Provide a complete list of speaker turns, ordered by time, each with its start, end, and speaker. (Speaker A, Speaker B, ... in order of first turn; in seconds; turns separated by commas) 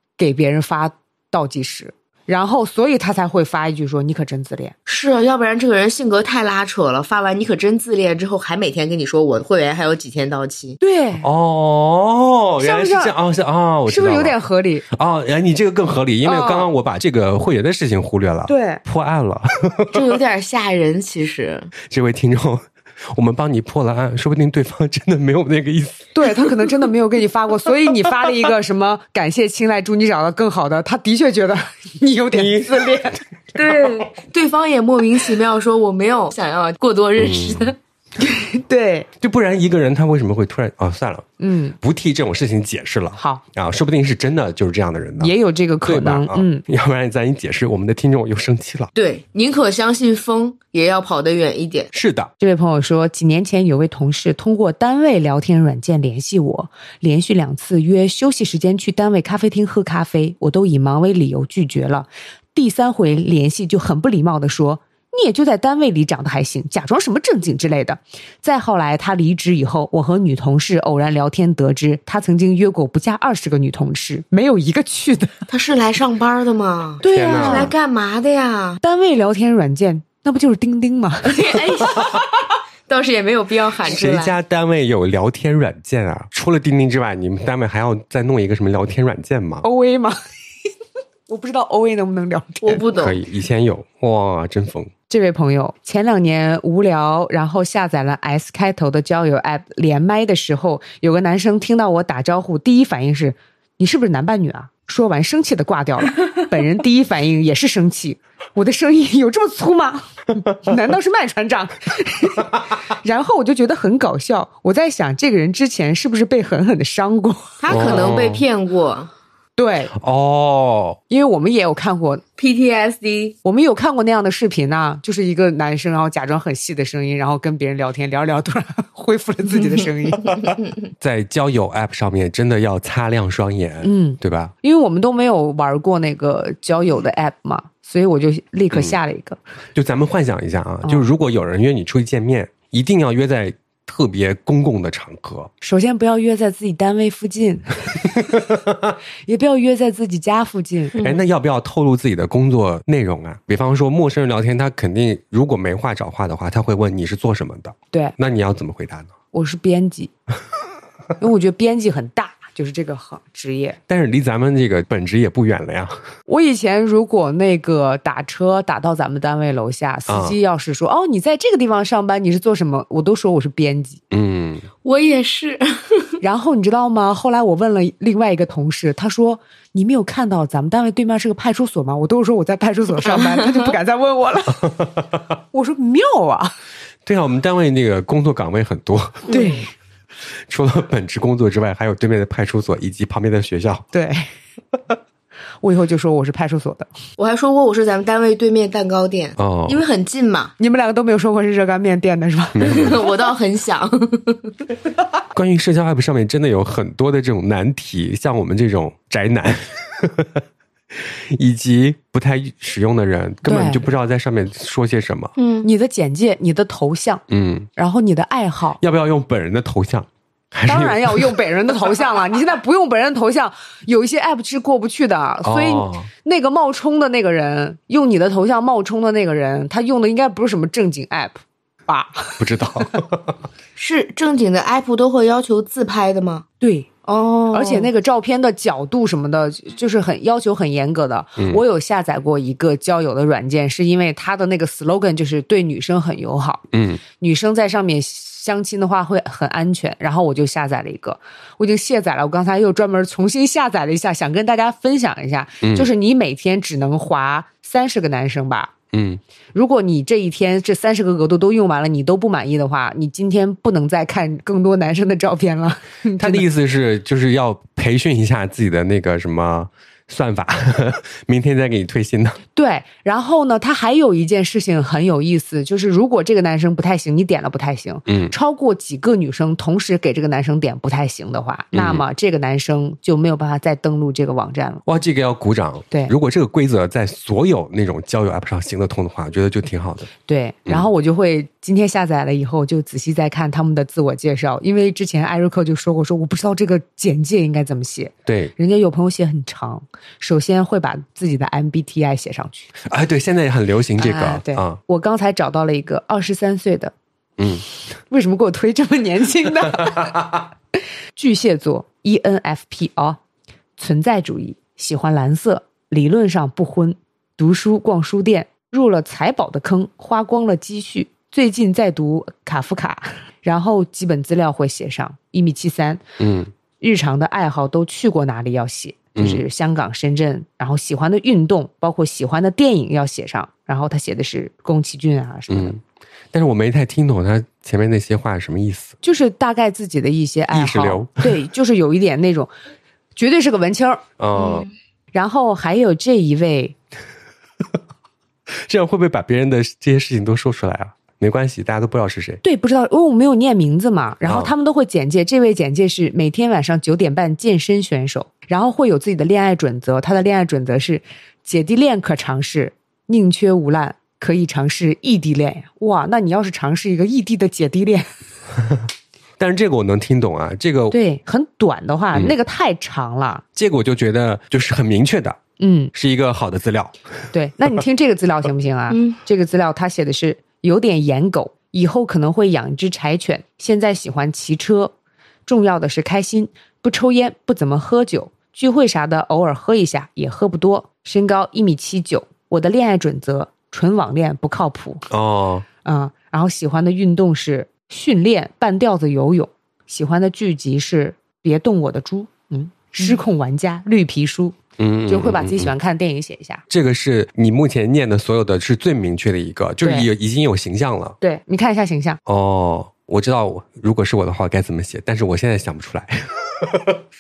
Speaker A: 0.2-4.7, Speaker B: 4.9-10.8, Speaker A: 10.8-11.2, Speaker C: 11.2-14.4, Speaker A: 12.6-13.2, Speaker A: 13.9-14.9, Speaker C: 14.9-20.1, Speaker A: 16.2-16.7, Speaker A: 18.5-18.8, Speaker B: 19.9-21.7, Speaker C: 21.9-26.6, Speaker A: 26.1-33.2, Speaker C: 32.3-33.0, Speaker B: 33.5-37.8, Speaker C: 37.2-37.7, Speaker A: 38.2-39.1, Speaker C: 39.2-45.3, Speaker A: 41.4-41.8, Speaker A: 43.2-43.4, Speaker A: 45.2-46.6, Speaker C: 45.9-48.9, Speaker B: 49.0-51.9, Speaker C: 51.9-52.3, Speaker A: 52.4-75.3, Speaker B: 75.5-78.8, Speaker A: 77.0-77.7, Speaker C: 77.0-77.7, Speaker A: 78.8-81.4, Speaker B: 81.2-84.4, Speaker C: 83.9-89.7, Speaker A: 89.6-90.2, Speaker A: 91.3-92.8, Speaker B: 92.6-93.2, Speaker C: 93.0-94.9, Speaker A: 95.1-117.9, Speaker B: 117.6-119.1, Speaker C: 117.7-118.4, Speaker A: 119.6-119.9, Speaker C: 119.9-121.0, Speaker A: 121.1-122.2, Speaker B: 122.4-123.4, Speaker A: 123.5-130.4, Speaker C: 130.3-134.5, Speaker A: 133.8-139.4, Speaker C: 138.7-139.0, Speaker C: 139.8-145.5, Speaker A: 145.6-148.0, Speaker C: 148.4-148.9, Speaker A: 149.3-151.0, Speaker C: 151.0-159.1, Speaker A: 159.3-160.1, Speaker A: 161.2-163.8, Speaker C: 163.9-166.0, Speaker A: 166.3-174.0, Speaker C: 170.1-170.4, Speaker C: 174.1-174.7, Speaker B: 174.8-176.1, Speaker A: 176.2-184.7, Speaker A: 185.5-186.5, Speaker C: 187.1-189.3, Speaker B: 189.3-189.6, Speaker A: 189.3-189.7, Speaker C: 190.5-193.9, Speaker A: 193.9-194.3, Speaker A: 195.6-196.9, Speaker B: 197.2-200.5, Speaker C: 199.4-199.8, Speaker A: 200.6-202.6, Speaker C: 202.6-203.0, Speaker B: 202.7-204.5, Speaker C: 205.3-210.4, Speaker C: 211.0-215.3, Speaker A: 213.5-213.8, Speaker B: 215.4-215.7, Speaker A: 215.6-217.2, Speaker C: 217.3-217.7, Speaker A: 217.8-218.8, Speaker C: 218.8-221.3, Speaker A: 220.7-232.4, Speaker C: 225.4-226.1, Speaker C: 232.4-233.3, Speaker B: 233.8-236.4, Speaker A: 236.6-236.9, Speaker B: 237.1-237.9, Speaker A: 237.5-246.7, Speaker C: 246.7-247.0, Speaker A: 247.2-258.7, Speaker C: 255.6-255.9, Speaker C: 258.9-259.2, Speaker A: 259.5-266.5, Speaker C: 266.2-272.4, Speaker A: 272.6-284.8, Speaker C: 278.1-278.3, Speaker C: 281.7-282.0, Speaker C: 284.9-290.1, Speaker A: 290.3-302.7, Speaker C: 298.3-298.5, Speaker C: 302.9-304.8, Speaker A: 304.0-306.9, Speaker C: 307.4-307.6, Speaker A: 308.1-310.1, Speaker A: 311.2-313.2, Speaker A: 313.8-326.0, Speaker C: 326.2-326.5, Speaker A: 326.8-335.8, Speaker C: 329.2-329.4, Speaker C: 335.5-335.8, Speaker C: 336.3-339.0, Speaker A: 339.0-342.5, Speaker C: 340.5-341.3, Speaker A: 343.2-344.0, Speaker C: 344.2-344.7, Speaker B: 344.4-344.7, Speaker A: 345.1-346.8, Speaker C: 348.7-352.4, Speaker A: 352.4-368.1, Speaker C: 354.3-354.5, Speaker C: 369.4-371.0, Speaker A: 370.9-373.4, Speaker C: 373.6-375.4, Speaker A: 375.6-375.9, Speaker C: 375.9-377.0, Speaker A: 377.3-384.9, Speaker B: 378.9-379.2, Speaker A: 385.5-395.1, Speaker C: 395.1-395.7, Speaker A: 395.9-404.6, Speaker C: 404.8-405.7, Speaker A: 405.1-406.6, Speaker C: 406.7-411.2, Speaker A: 409.8-410.1, Speaker A: 411.2-412.2, Speaker C: 412.3-417.0